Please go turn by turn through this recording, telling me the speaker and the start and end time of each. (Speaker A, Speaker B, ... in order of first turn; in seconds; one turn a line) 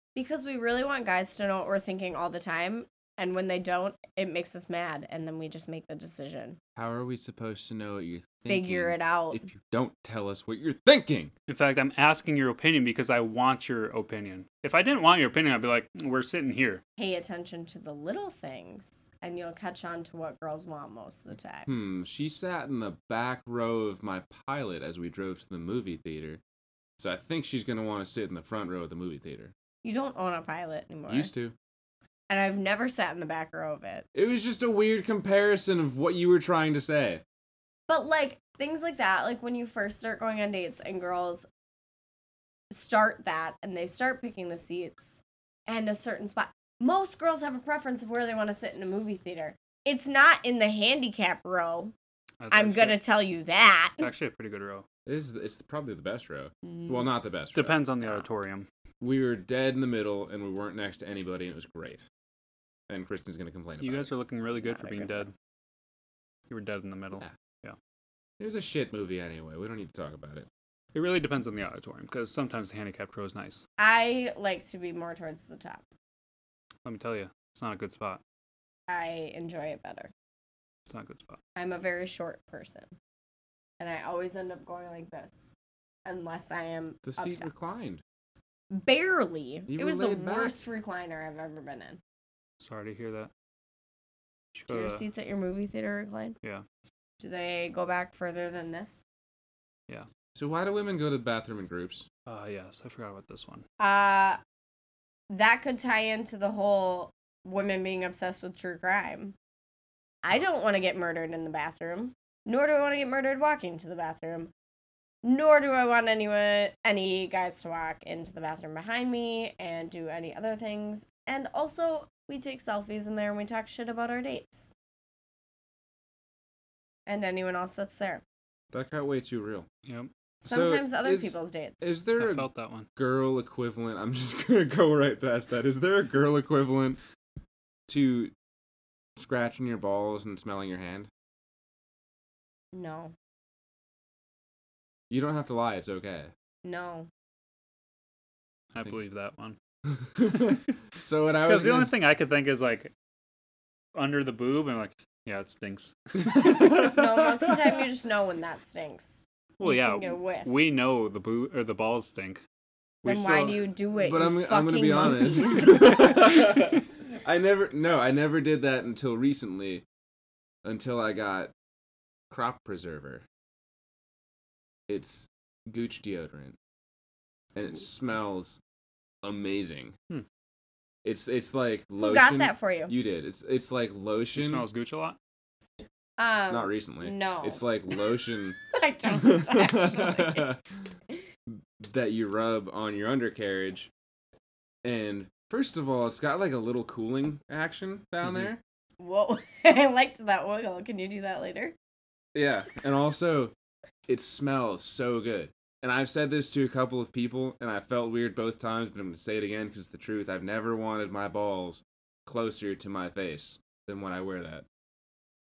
Speaker A: 0.1-6.6
Speaker B: 6.8-11.3
Speaker A: 8.5-9.4
Speaker C: 11.5-16.8
Speaker A: 17.0-21.7
Speaker B: 21.7-26.4
Speaker B: 27.0-29.5
Speaker A: 29.8-31.3
Speaker B: 31.1-31.5
Speaker A: 32.3-34.0
Speaker B: 34.1-37.2
Speaker A: 37.9-41.5
Speaker A: 42.7-51.9
Speaker C: 52.4-53.0
Speaker A: 52.5-54.1
Speaker C: 54.0-54.8
Speaker B: 55.0-57.8
Speaker A: 56.6-57.1
Speaker C: 57.5-58.7
Speaker A: 57.9-58.3
Speaker B: 59.0-62.1
Speaker B: 62.9-64.1
Speaker C: 63.8-65.3
Speaker A: 64.6-65.3
Speaker C: 66.5-67.8
Speaker B: 68.4-70.5
Speaker C: 70.9-73.6
Speaker A: 73.8-75.8
Speaker C: 76.8-78.2
Speaker A: 78.9-80.1
Speaker C: 80.9-81.4
Speaker A: 81.5-82.9
Speaker A: 83.8-85.5
Speaker A: 86.0-87.5
Speaker B: 87.0-88.0
Speaker A: 88.7-92.0
Speaker B: 89.7-90.6
Speaker C: 92.6-93.3
Speaker C: 94.5-95.0
Speaker A: 94.7-96.3
Speaker A: 97.2-99.0
Speaker B: 100.3-102.1
Speaker C: 102.2-103.6
Speaker A: 103.8-104.4
Speaker A: 105.3-109.3
Speaker A: 110.2-114.5
Speaker A: 115.2-124.7
Speaker A: 127.1-128.2
Speaker B: 128.7-129.7
Speaker A: 130.4-131.9
Speaker B: 130.4-137.0
Speaker C: 132.2-132.9
Speaker B: 137.9-138.3
Speaker B: 139.2-141.1
Speaker A: 142.7-143.1
Speaker B: 145.1-146.3
Speaker A: 146.6-147.1
Speaker C: 148.7-149.6
Speaker B: 149.8-151.9
Speaker C: 151.4-152.9
Speaker C: 153.9-156.2
Speaker B: 156.2-157.8
Speaker A: 156.4-160.5
Speaker C: 159.6-162.4
Speaker C: 163.0-163.6
Speaker A: 163.0-166.4
Speaker B: 164.0-169.8
Speaker B: 170.6-171.5
Speaker B: 172.3-173.2
Speaker B: 174.9-176.6
Speaker B: 177.5-178.6
Speaker B: 179.2-179.9
Speaker B: 181.0-184.7
Speaker A: 182.0-182.9
Speaker C: 184.3-185.2
Speaker A: 186.2-188.0
Speaker B: 186.5-190.6
Speaker A: 188.7-190.5
Speaker B: 191.5-193.9
Speaker B: 194.8-198.6
Speaker A: 199.0-201.7
Speaker B: 202.3-203.5
Speaker B: 204.1-214.7